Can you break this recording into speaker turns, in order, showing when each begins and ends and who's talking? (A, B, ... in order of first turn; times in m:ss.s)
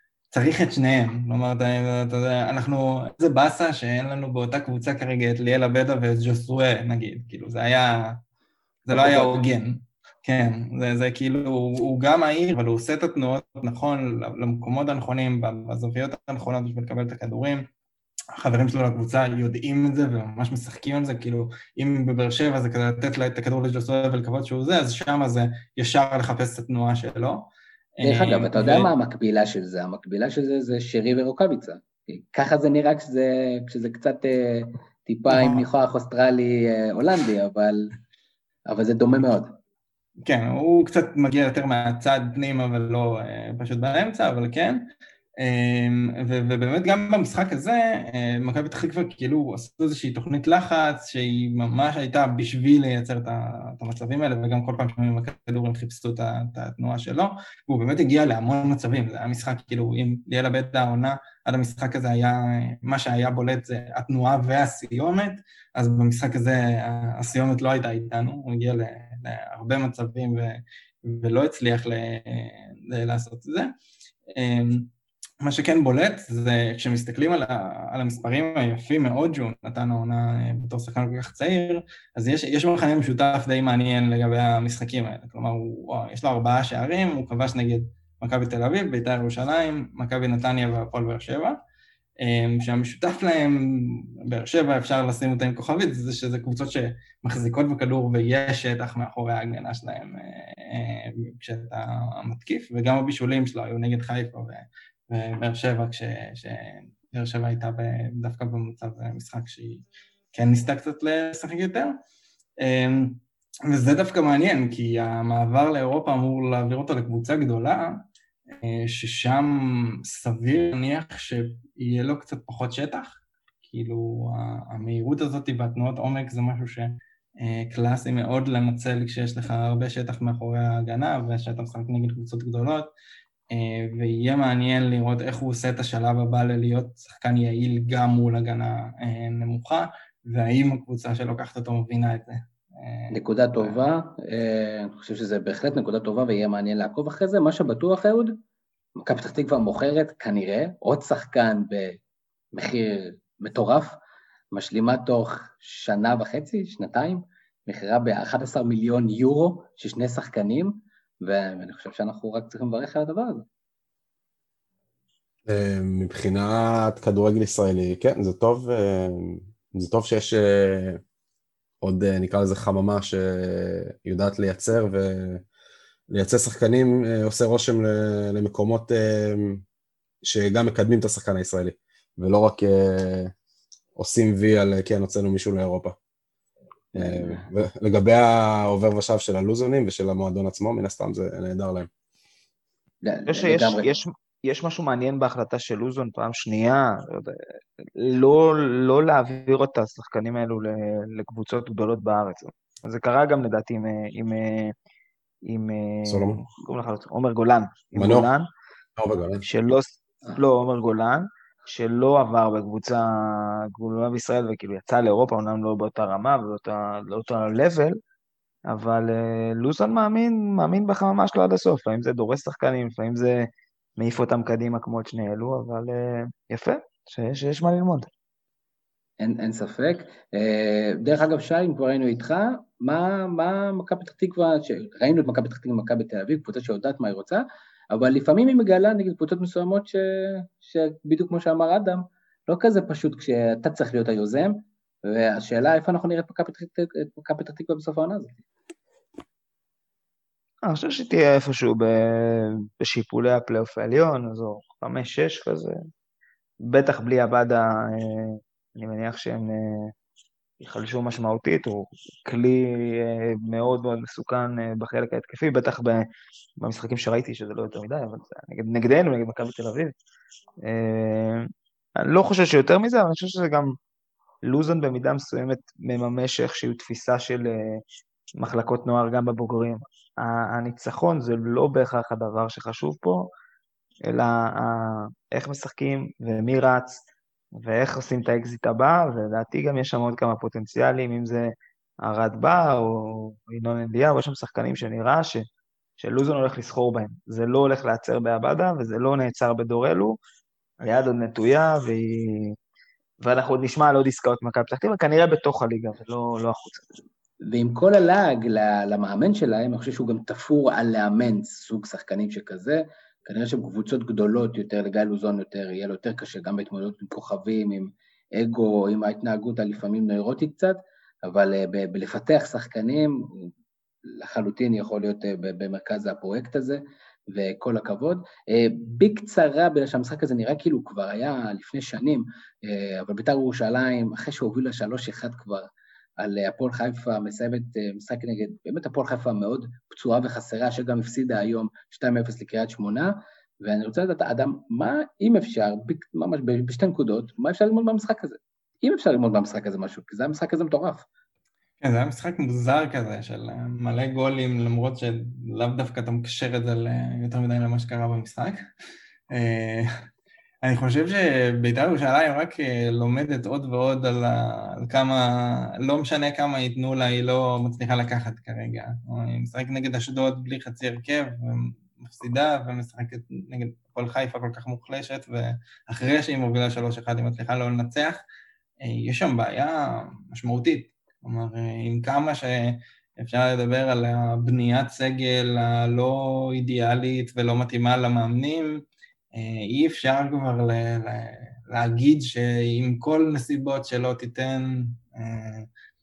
0:00.3-0:08.2 A
0:08.9-0:17.7 A
0:08.9-0:09.3 B
0:18.4-0:28.9 A
0:28.0-0:37.9 B
0:35.3-0:35.6 A
0:38.7-0:39.6 B
0:40.2-0:44.8 A
0:45.4-1:13.7 A
1:14.3-1:14.9 A
1:15.4-1:31.6 A
1:32.2-1:52.0 A
1:52.6-1:58.0 A
1:58.6-2:12.9 A
2:13.5-2:23.8 A
2:23.1-2:28.4 B
2:29.0-2:32.0 B
2:32.5-2:34.0 B
2:34.5-2:43.4 B
2:45.5-2:51.0 C
2:51.8-2:55.4 C
2:56.1-2:59.6 C
3:00.2-3:03.3 C
3:04.0-3:06.0 C
3:06.9-3:11.9 C
3:07.0-3:07.4 B
3:13.0-3:13.9 B
3:13.3-3:17.4 D
3:18.0-3:24.7 D
3:25.4-3:28.5 D
3:26.1-3:26.4 C
3:28.0-3:28.3 C
3:29.0-3:29.4 C
3:29.4-3:38.0 D
3:38.7-3:48.1 D
3:49.2-4:08.4 B
4:10.6-4:15.8 D
4:16.6-4:19.9 D
4:20.6-4:26.0 D
4:26.6-4:29.9 D
4:30.6-4:33.8 D
4:34.4-4:37.8 D
4:38.4-4:43.3 D
4:44.1-4:47.0 D
4:47.5-4:55.4 D
4:56.0-5:00.2 D
5:00.8-5:02.6 D
5:03.2-5:06.8 D
5:07.5-5:23.5 B
5:24.0-5:51.1 B
5:51.8-5:58.6 A
5:59.3-5:59.9 A
6:00.6-6:18.2 A
6:18.8-6:28.8 A
6:29.3-6:35.7 A